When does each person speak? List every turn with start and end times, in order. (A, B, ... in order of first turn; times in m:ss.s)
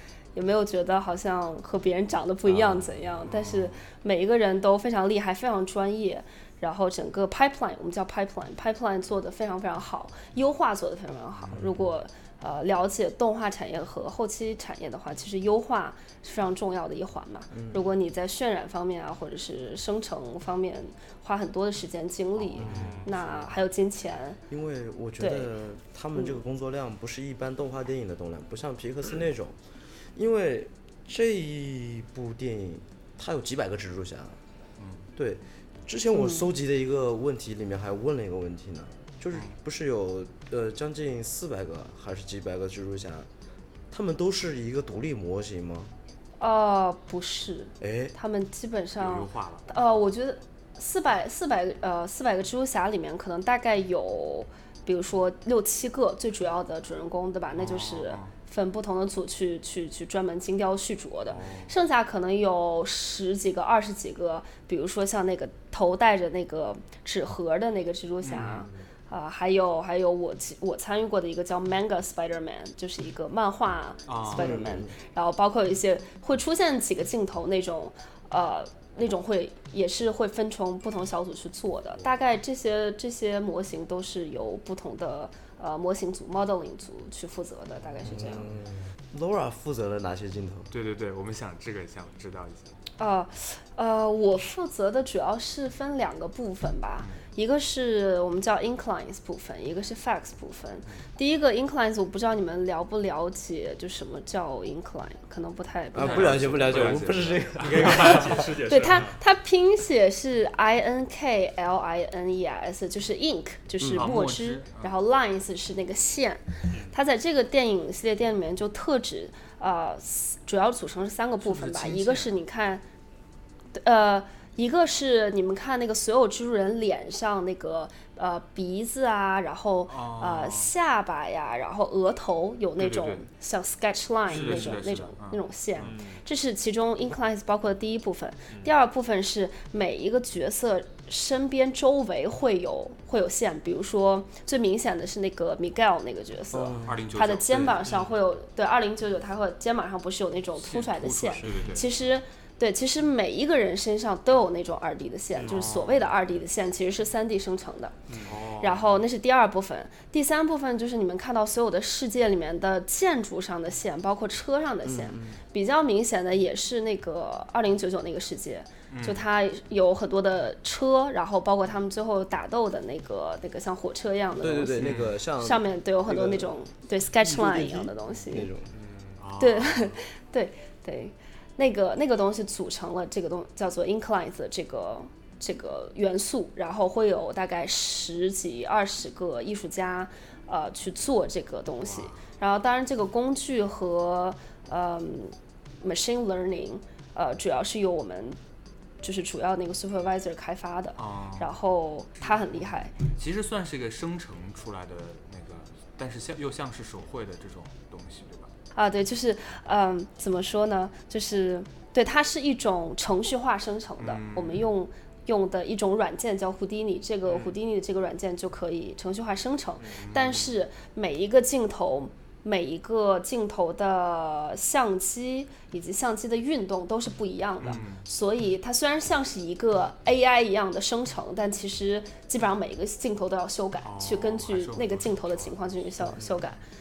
0:00.4-0:24.4 A
0:02.5-0:02.9 B
0:03.3-0:03.8 C
0:11.5-0:11.9 B
0:17.5-0:17.9 B
0:22.5-0:23.6 C
0:22.6-0:23.0 B
0:22.8-0:23.0 D
0:24.5-0:29.6 B
0:25.2-0:25.5 A
0:30.2-0:34.4 B
0:34.8-0:35.1 C
0:35.2-0:43.3 B
0:36.1-0:36.5 A
0:43.9-0:45.9 B
0:46.4-1:28.5 A
0:47.8-0:48.2 B
0:49.0-0:49.7 C
0:57.6-0:58.3 C
1:01.3-1:01.7 C
1:08.2-1:08.7 C
1:14.1-1:14.6 C
1:14.3-1:14.9 B
1:28.0-1:30.7 B
1:30.7-1:32.8 C
1:33.0-1:46.6 A
1:45.9-1:48.5 B
1:46.0-1:48.5 C
1:47.6-1:49.2 D
1:48.7-2:02.8 A
1:53.8-1:54.1 B
1:53.9-1:54.9 C
2:01.4-2:02.3 C
2:03.8-2:38.0 A
2:09.9-2:10.7 C
2:12.8-2:13.3 C
2:14.3-2:16.0 C
2:14.3-2:14.7 D
2:15.8-2:16.2 D
2:26.5-2:27.0 B
2:26.8-2:28.1 C
2:30.6-2:31.9 C
2:31.5-2:31.7 B
2:35.4-2:36.2 C
2:38.2-2:39.0 C
2:38.6-2:58.5 A
2:44.8-2:45.4 B
2:48.9-2:49.2 C
2:54.4-2:56.5 B
2:54.8-2:55.2 C
2:57.2-2:58.7 B
2:58.7-2:59.2 D
2:59.2-3:00.0 C
2:59.4-3:18.4 A
3:11.8-3:12.2 C
3:19.0-3:22.9 A
3:21.0-3:21.5 C
3:22.2-3:28.5 C
3:28.8-3:56.6 A
3:34.0-3:34.7 C
3:40.0-3:40.5 C
3:47.6-3:48.0 C
3:53.8-3:55.9 C
3:56.0-3:56.4 B